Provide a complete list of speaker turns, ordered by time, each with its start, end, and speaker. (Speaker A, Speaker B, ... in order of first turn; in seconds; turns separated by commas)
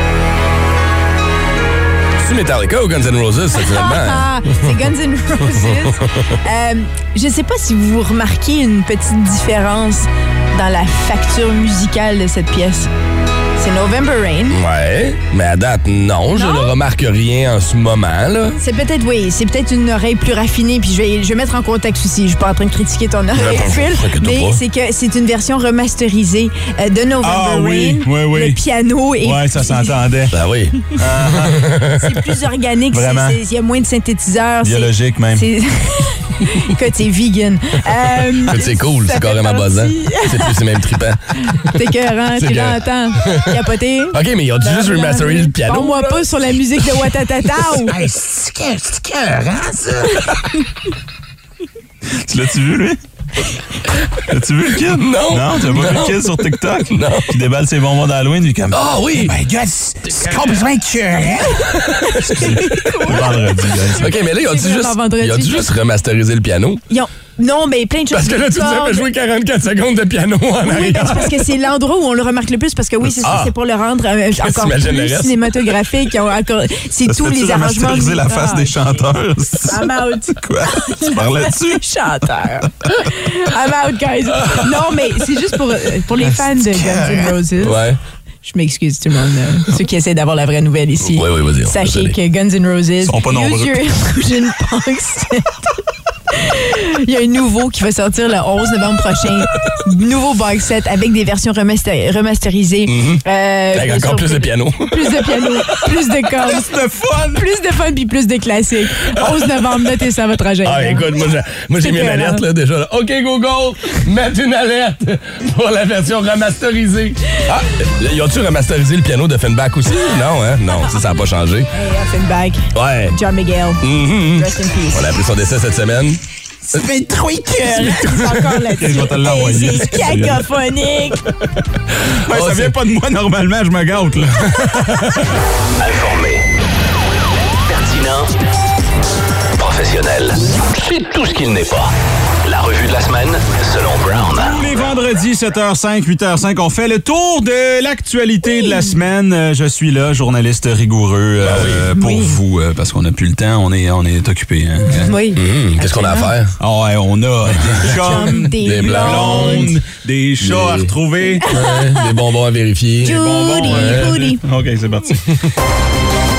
Speaker A: 2.2-4.3, Speaker B: 3.5-12.9, Speaker A: 5.6-6.2, Speaker B: 13.6-14.6, Speaker A: 14.5-18.6, Speaker B: 16.3-16.7, Speaker B: 18.6-30.0, Speaker A: 23.3-24.6, Speaker C: 27.2-28.6, Speaker C: 29.2-30.4, Speaker A: 30.3-30.8, Speaker C: 30.9-31.7, Speaker A: 31.3-32.1, Speaker B: 32.0-40.6, Speaker C: 32.9-33.4, Speaker C: 34.6-35.5, Speaker A: 38.4-41.2, Speaker B: 41.4-48.0, Speaker A: 42.4-43.6, Speaker A: 44.1-46.3, Speaker C: 48.0-49.8, Speaker C: 52.2-53.0, Speaker C: 54.2-64.1, Speaker A: 54.8-57.3, Speaker A: 58.7-59.4, Speaker A: 60.1-60.6, Speaker B: 62.0-65.7, Speaker A: 64.0-66.8, Speaker B: 66.9-69.1, Speaker A: 68.1-71.5, Speaker B: 70.6-79.1, Speaker A: 73.2-73.5, Speaker A: 74.4-75.7, Speaker C: 77.0-81.8, Speaker B: 79.7-87.8, Speaker A: 84.4-84.8, Speaker C: 86.2-87.3, Speaker A: 87.6-88.0, Speaker B: 88.4-95.5, Speaker A: 91.1-92.2, Speaker C: 93.0-93.8, Speaker B: 96.3-106.7, Speaker A: 102.9-105.3, Speaker C: 106.4-107.5, Speaker B: 107.4-111.1, Speaker A: 110.6-121.7, Speaker B: 111.8-112.4, Speaker B: 121.7-125.1, Speaker A: 122.7-123.2, Speaker A: 123.8-126.2, Speaker B: 126.7-131.2, Speaker C: 126.8-130.4, Speaker C: 132.1-135.2, Speaker A: 132.3-132.8, Speaker D: 135.8-136.5, Speaker D: 137.7-138.3, Speaker D: 139.6-141.9, Speaker D: 142.4-144.9, Speaker C: 144.4-155.2, Speaker B: 148.4-148.9, Speaker A: 151.4-151.9, Speaker B: 151.9-152.4, Speaker B: 154.9-156.3, Speaker A: 155.3-156.6, Speaker C: 156.6-161.5, Speaker B: 157.9-159.7, Speaker A: 158.6-159.8, Speaker A: 160.4-160.9, Speaker A: 161.4-164.1, Speaker B: 161.5-162.1, Speaker B: 163.0-164.4, Speaker C: 163.1-165.4